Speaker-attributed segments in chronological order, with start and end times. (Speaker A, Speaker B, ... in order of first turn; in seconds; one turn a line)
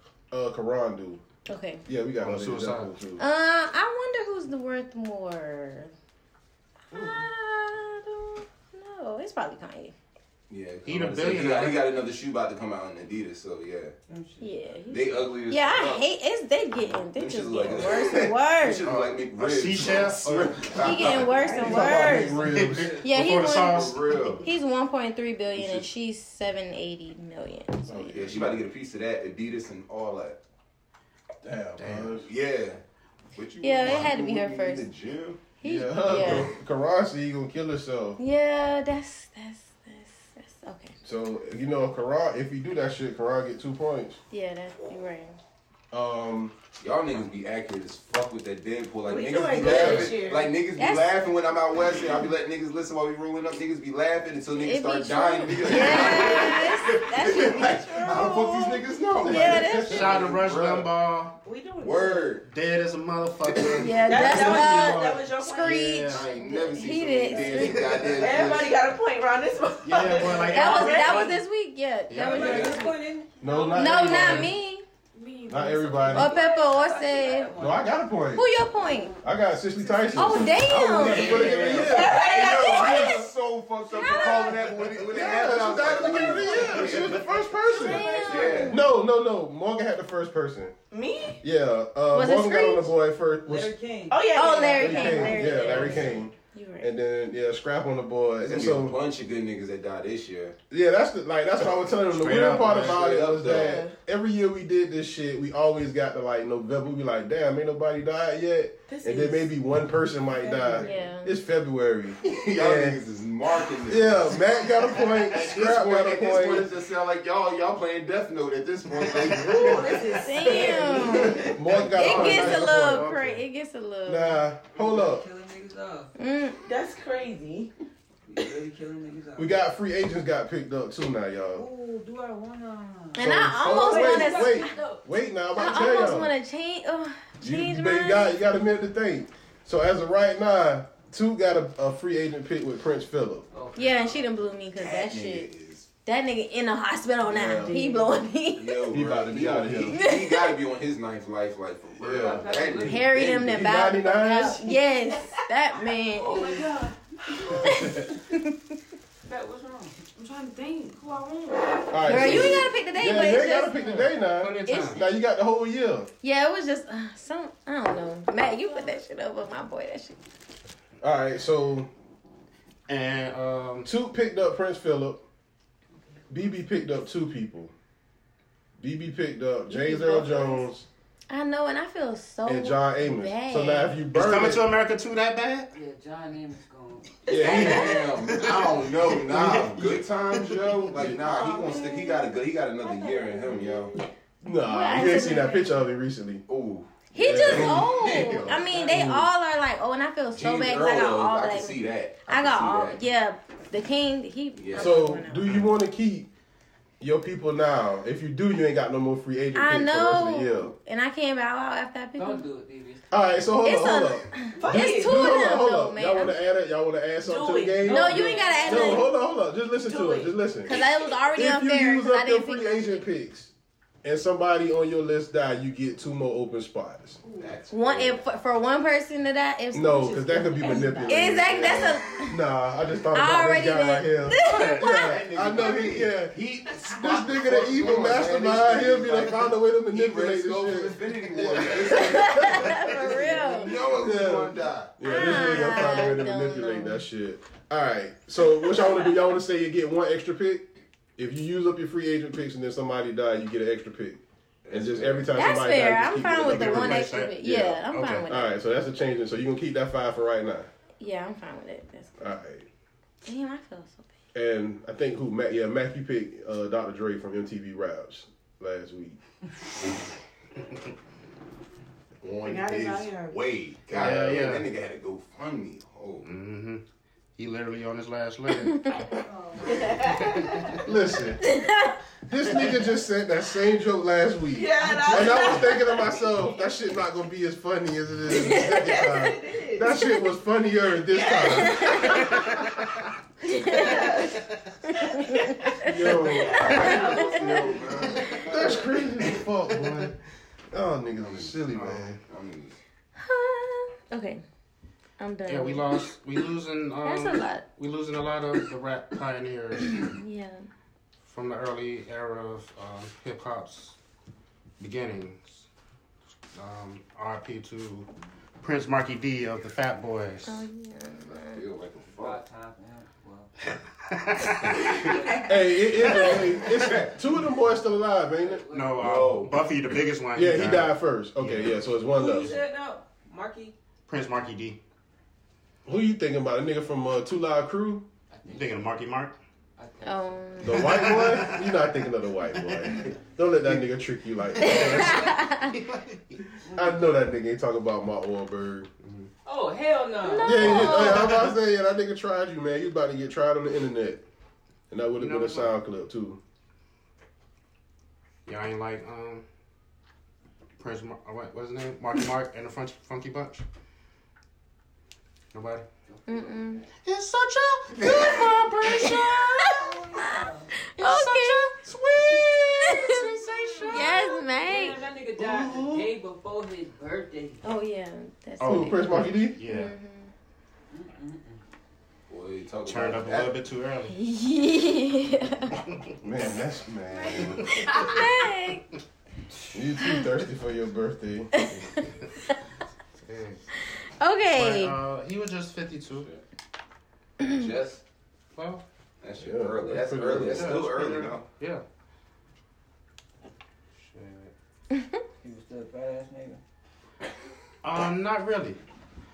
Speaker A: 0.3-1.2
Speaker B: 1.5-1.8
Speaker A: 1.9-3.2
Speaker C: 2.2-2.9
Speaker B: 3.2-5.9
Speaker B: 6.9-9.9
Speaker D: 6.9-7.2
Speaker E: 10.5-13.9
Speaker C: 10.8-12.0
Speaker F: 14.1-15.3
Speaker B: 14.4-18.9
Speaker E: 14.9-16.0
Speaker E: 17.1-22.8
Speaker C: 18.9-20.8
Speaker B: 20.8-22.4
Speaker D: 21.3-22.4
Speaker A: 21.8-22.8
Speaker C: 22.0-24.3
Speaker F: 22.7-23.0
Speaker B: 23.0-28.2
Speaker E: 23.6-24.5
Speaker E: 25.5-25.9
Speaker A: 27.9-28.7
Speaker E: 28.1-30.4
Speaker A: 31.4-32.3
Speaker C: 31.8-32.2
Speaker E: 32.2-32.8
Speaker E: 33.4-35.5
Speaker B: 33.6-34.9
Speaker B: 35.6-36.5
Speaker A: 35.6-38.2
Speaker B: 38.2-41.0
Speaker A: 41.0-44.2
Speaker B: 44.3-45.4
Speaker A: 45.9-46.6
Speaker E: 46.8-60.9
Speaker D: 49.1-50.5
Speaker A: 49.6-50.1
Speaker B: 50.8-51.1
Speaker B: 54.6-60.1
Speaker A: 55.8-56.4
Speaker D: 56.0-58.6
Speaker A: 59.2-60.3
Speaker C: 59.8-61.4
Speaker D: 61.4-62.4
Speaker E: 61.8-62.5
Speaker C: 62.5-66.3
Speaker E: 63.5-63.9
Speaker B: 63.8-68.0
Speaker D: 64.1-66.0
Speaker E: 66.0-68.8
Speaker D: 68.0-71.3
Speaker C: 69.8-71.3
Speaker B: 70.5-73.0
Speaker C: 72.1-72.8
Speaker F: 72.1-74.4
Speaker E: 72.4-72.8
Speaker A: 73.4-74.5
Speaker B: 73.8-74.8
Speaker G: 75.2-76.5
Speaker A: 75.5-76.4
Speaker F: 75.9-78.0
Speaker B: 76.1-77.5
Speaker A: 77.6-78.5
Speaker B: 78.3-79.1
Speaker A: 79.2-82.2
Speaker B: 80.2-83.3
Speaker E: 80.8-88.8
Speaker D: 81.9-83.2
Speaker B: 83.9-84.8
Speaker A: 85.1-90.8
Speaker D: 86.1-87.2
Speaker B: 87.7-88.8
Speaker D: 87.7-88.7
Speaker D: 90.9-91.4
Speaker A: 91.4-93.7
Speaker B: 92.1-92.9
Speaker F: 93.4-94.8
Speaker D: 94.1-96.0
Speaker B: 94.3-96.9
Speaker A: 94.8-99.0
Speaker F: 95.5-96.0
Speaker E: 98.4-100.5
Speaker A: 100.7-113.0
Speaker C: 102.1-103.0
Speaker E: 102.5-103.8
Speaker D: 103.4-104.0
Speaker D: 108.9-109.5
Speaker D: 110.4-111.0
Speaker B: 110.7-111.3
Speaker E: 112.2-122.4
Speaker A: 113.9-116.7
Speaker D: 119.4-121.6
Speaker B: 120.2-124.4
Speaker A: 121.4-123.2
Speaker C: 122.0-123.4
Speaker A: 124.1-125.2
Speaker F: 124.7-126.1
Speaker B: 126.2-126.6
Speaker D: 126.6-127.7
Speaker F: 128.3-129.6
Speaker A: 129.4-131.7
Speaker F: 131.5-135.0
Speaker B: 133.2-134.7
Speaker A: 133.2-136.3
Speaker G: 134.1-134.9
Speaker B: 135.6-138.4
Speaker A: 137.4-143.5
Speaker F: 143.5-144.3
Speaker B: 143.8-145.5
Speaker E: 144.8-145.9
Speaker B: 146.1-148.9
Speaker A: 147.3-147.8
Speaker E: 148.6-153.8
Speaker A: 148.9-150.0
Speaker B: 149.9-150.5
Speaker A: 152.0-152.6
Speaker F: 152.1-153.1
Speaker B: 152.8-156.5
Speaker A: 153.3-154.6
Speaker F: 156.2-156.9
Speaker G: 156.4-156.7
Speaker B: 157.6-158.6
Speaker F: 159.3-160.1
Speaker G: 160.2-162.2
Speaker A: 161.9-166.1
Speaker B: 162.1-163.8
Speaker C: 163.9-165.0
Speaker B: 164.7-165.1
Speaker B: 166.2-170.2
Speaker A: 171.0-171.9
Speaker C: 172.9-173.9
Speaker A: 173.8-175.2
Speaker A: 176.3-177.7
Speaker A: 178.8-180.9
Speaker B: 179.7-180.6
Speaker B: 181.3-184.0
Speaker A: 182.5-184.7
Speaker C: 184.1-185.7
Speaker F: 185.7-187.8
Speaker D: 187.3-187.9
Speaker A: 187.3-188.0
Speaker E: 187.3-194.0
Speaker C: 188.2-190.8
Speaker A: 190.9-191.2
Speaker D: 191.1-194.0
Speaker A: 194.4-196.4
Speaker B: 194.6-195.8
Speaker E: 196.5-198.6
Speaker B: 197.1-205.5
Speaker A: 197.2-199.3
Speaker F: 198.6-198.9
Speaker E: 200.3-203.0
Speaker E: 204.6-205.0
Speaker A: 204.8-206.3
Speaker A: 207.0-210.7
Speaker B: 209.6-212.4
Speaker F: 212.2-213.5
Speaker A: 213.1-220.8
Speaker B: 213.6-216.3
Speaker D: 214.6-215.2
Speaker D: 217.2-219.0
Speaker B: 217.8-219.1
Speaker F: 217.8-218.8
Speaker D: 219.8-220.3
Speaker B: 220.7-223.0
Speaker A: 221.3-223.5
Speaker A: 224.0-227.2
Speaker E: 227.2-228.2
Speaker B: 227.7-232.4
Speaker A: 229.7-236.4
Speaker B: 233.1-235.2
Speaker C: 234.4-235.1
Speaker E: 234.9-245.0
Speaker A: 236.9-243.0
Speaker B: 241.9-243.8
Speaker D: 243.2-243.6
Speaker A: 243.7-260.7
Speaker B: 245.0-247.0
Speaker E: 254.6-255.5
Speaker B: 255.3-258.6
Speaker C: 256.4-258.3
Speaker B: 261.0-262.2
Speaker A: 262.2-262.7
Speaker B: 263.2-264.1
Speaker A: 264.3-269.2
Speaker E: 272.2-276.3
Speaker D: 272.4-273.6
Speaker C: 273.9-274.7
Speaker C: 276.2-276.8
Speaker C: 277.4-278.9
Speaker B: 278.7-279.0
Speaker G: 279.4-279.8
Speaker D: 279.6-280.8
Speaker A: 280.9-281.4
Speaker B: 281.4-281.9
Speaker A: 282.3-292.3
Speaker D: 284.5-286.3
Speaker D: 288.3-289.9
Speaker D: 291.1-292.5
Speaker B: 291.9-292.2
Speaker B: 293.4-294.1
Speaker D: 293.6-294.4
Speaker B: 295.0-295.6
Speaker D: 295.1-297.8
Speaker A: 295.8-300.1
Speaker E: 296.4-299.5
Speaker B: 296.8-297.2
Speaker A: 300.7-302.2
Speaker E: 301.2-302.8
Speaker C: 301.7-302.1
Speaker B: 303.2-304.4
Speaker B: 305.2-305.9
Speaker C: 305.5-310.1
Speaker B: 307.0-307.6
Speaker B: 310.0-310.6
Speaker C: 311.2-314.0
Speaker C: 314.8-315.7
Speaker C: 316.6-318.1
Speaker C: 318.6-320.6
Speaker B: 320.5-321.6
Speaker E: 321.5-322.4
Speaker F: 322.1-323.5
Speaker C: 324.1-325.0
Speaker F: 325.1-325.4
Speaker A: 325.4-328.6
Speaker B: 326.1-326.4
Speaker E: 326.7-327.1
Speaker F: 328.3-329.1
Speaker C: 328.7-331.8
Speaker E: 329.0-329.6
Speaker A: 330.4-332.6
Speaker F: 332.0-333.8
Speaker C: 334.1-334.8
Speaker A: 335.9-338.1
Speaker F: 338.3-338.8
Speaker C: 338.5-339.4
Speaker F: 339.8-340.6
Speaker B: 340.0-341.0
Speaker A: 340.6-345.4
Speaker C: 340.9-341.7
Speaker B: 344.6-345.8
Speaker C: 345.7-346.2
Speaker F: 346.7-347.1
Speaker A: 346.7-348.9
Speaker C: 349.0-349.3
Speaker F: 349.4-351.0
Speaker B: 350.2-351.5
Speaker A: 350.4-354.2
Speaker C: 350.7-351.2
Speaker A: 354.9-356.4
Speaker C: 355.2-355.7
Speaker C: 358.5-359.4
Speaker C: 360.8-363.6
Speaker C: 365.5-365.9
Speaker F: 366.1-366.5
Speaker B: 366.3-366.9
Speaker C: 367.1-369.9
Speaker B: 369.6-370.4
Speaker F: 370.1-370.7
Speaker B: 371.0-371.7
Speaker C: 371.0-374.1
Speaker B: 372.7-373.2
Speaker F: 373.7-377.6
Speaker B: 373.9-375.0
Speaker C: 375.4-376.1
Speaker B: 377.6-380.3
Speaker C: 378.6-379.9
Speaker A: 378.6-379.6
Speaker F: 380.9-381.6
Speaker E: 382.3-383.6
Speaker C: 382.9-384.1
Speaker B: 384.1-385.8
Speaker A: 386.2-387.6
Speaker G: 387.1-388.3
Speaker B: 387.9-388.9
Speaker A: 389.7-391.5
Speaker C: 393.2-393.7
Speaker B: 394.2-394.9
Speaker C: 394.5-396.3
Speaker E: 397.4-398.0
Speaker C: 398.6-398.8
Speaker E: 399.2-401.4
Speaker A: 399.4-400.8
Speaker C: 400.4-401.8
Speaker C: 404.0-404.5
Speaker F: 405.4-406.6
Speaker C: 407.8-408.8